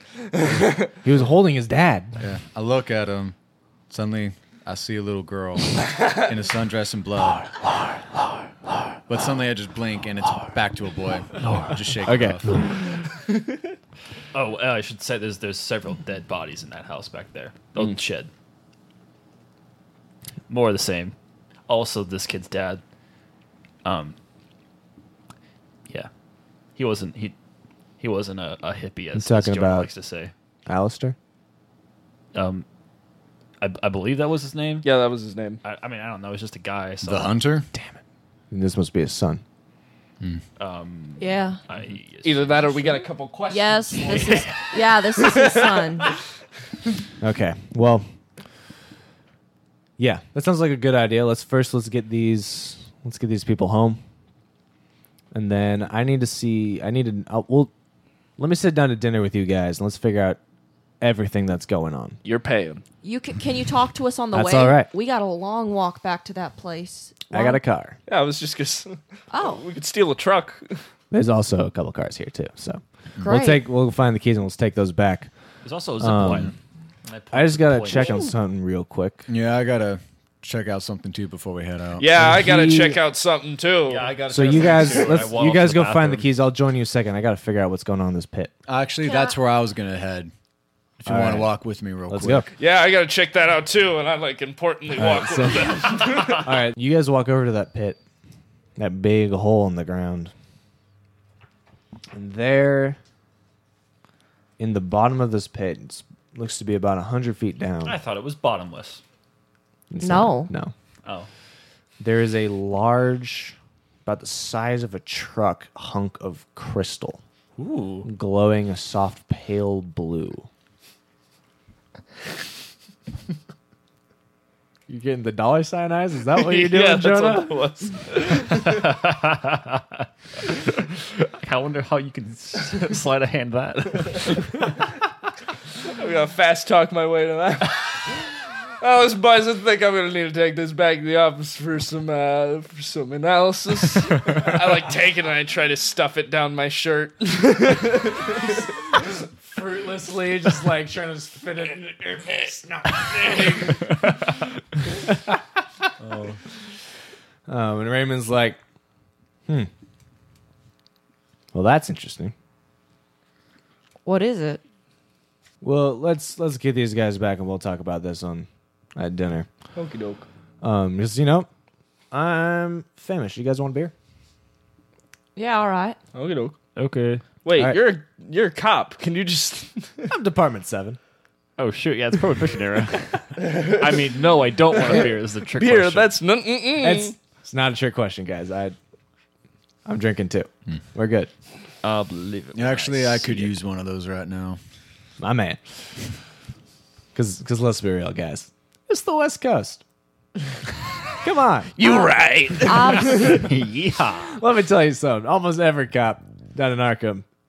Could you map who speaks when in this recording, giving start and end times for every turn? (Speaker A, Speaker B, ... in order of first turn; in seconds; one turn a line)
Speaker A: 0.2-0.9
Speaker B: 1.0-2.3
Speaker C: 2.2-3.3
Speaker C: 3.9-7.6
Speaker C: 9.1-12.6
Speaker D: 11.3-11.9
Speaker B: 12.0-12.9
Speaker D: 12.4-12.8
Speaker D: 14.3-18.3
Speaker D: 20.5-21.1
Speaker D: 21.7-22.8
Speaker D: 23.8-24.2
Speaker D: 26.7-27.3
Speaker D: 28.0-30.3
Speaker B: 29.1-29.9
Speaker B: 30.7-31.1
Speaker D: 32.3-32.6
Speaker D: 33.6-34.9
Speaker A: 34.8-35.6
Speaker D: 35.6-37.4
Speaker C: 37.0-37.7
Speaker B: 37.7-38.0
Speaker B: 38.5-39.4
Speaker D: 40.6-43.0
Speaker E: 41.2-41.6
Speaker A: 42.2-46.0
Speaker E: 43.5-46.1
Speaker D: 44.1-44.8
Speaker B: 47.2-48.1
Speaker B: 50.0-54.0
Speaker B: 55.3-57.7
Speaker B: 58.4-60.4
Speaker B: 61.0-62.2
Speaker A: 62.2-62.8
Speaker E: 63.0-67.6
Speaker B: 64.3-64.9
Speaker B: 67.3-68.0
Speaker A: 68.1-70.8
Speaker E: 69.3-69.6
Speaker B: 71.1-75.3
Speaker E: 73.2-73.6
Speaker D: 75.6-76.5
Speaker B: 76.0-76.5
Speaker D: 77.0-78.2
Speaker B: 77.3-79.2
Speaker C: 79.3-82.1
Speaker A: 82.0-85.1
Speaker B: 82.1-83.0
Speaker D: 83.9-86.3
Speaker B: 84.3-88.5
Speaker C: 88.7-90.3
Speaker E: 89.0-89.3
Speaker C: 91.0-92.5
Speaker B: 91.0-91.5
Speaker B: 92.1-92.5
Speaker A: 92.6-96.4
Speaker B: 94.9-98.0
Speaker B: 98.8-100.3
Speaker B: 102.1-103.0
Speaker B: 104.6-108.0
Speaker D: 107.8-109.0
Speaker B: 109.9-110.7
Speaker E: 110.0-110.5
Speaker B: 112.0-117.2
Speaker D: 117.6-118.1
Speaker B: 118.0-120.5
Speaker B: 124.9-127.6
Speaker A: 126.3-128.8
Speaker D: 128.3-134.8
Speaker A: 135.9-138.2
Speaker A: 138.8-148.7
Speaker B: 148.9-154.1
Speaker B: 155.0-155.4
Speaker D: 156.0-156.4
Speaker B: 157.5-158.6
Speaker B: 161.5-162.3
Speaker E: 164.0-164.6
Speaker B: 165.6-169.5
Speaker A: 169.7-170.2
Speaker B: 170.6-171.5
Speaker B: 172.1-173.9
Speaker E: 175.3-176.0
Speaker A: 176.1-176.5
Speaker D: 176.8-177.2
Speaker A: 177.4-180.1
Speaker B: 177.5-177.9
Speaker B: 180.1-181.0
Speaker D: 181.6-186.1
Speaker A: 184.8-187.1
Speaker B: 186.8-188.8
Speaker B: 189.8-191.3
Speaker D: 191.8-193.5
Speaker C: 192.5-194.6
Speaker B: 195.2-195.7
Speaker B: 197.1-199.8
Speaker B: 201.2-201.8
Speaker A: 201.8-203.4
Speaker E: 201.8-203.4
Speaker D: 202.9-204.4
Speaker B: 204.2-207.2